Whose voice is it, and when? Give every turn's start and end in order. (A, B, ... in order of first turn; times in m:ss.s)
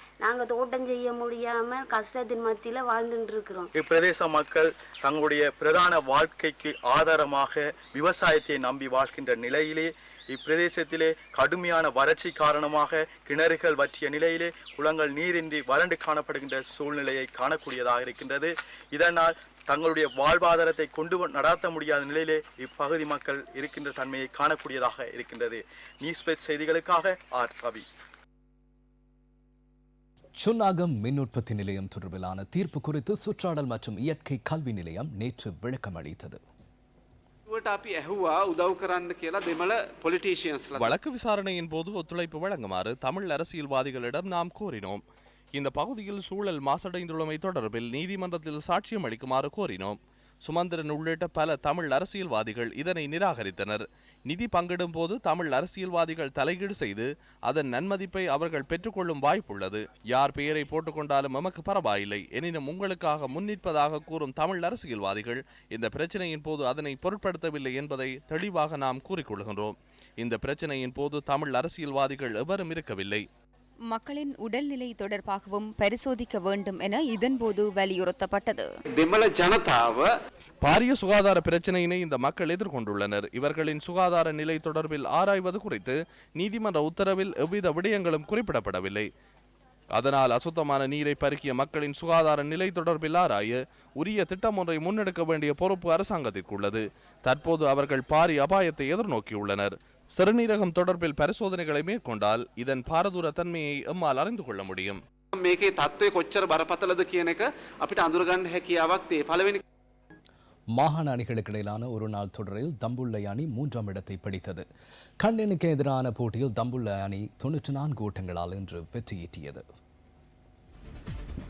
0:00.2-0:03.7 A
0:03.8-0:27.8 B
0:30.4-0:36.4 C
0:37.5-0:40.9 D
0:40.8-0:45.0 E
0:45.5-1:13.3 E
1:13.9-1:18.7 F
1:19.0-1:20.1 D
1:20.6-1:29.1 E
1:29.9-1:45.0 E
1:45.4-1:49.6 D
1:50.7-1:54.6 C
1:55.2-1:59.6 C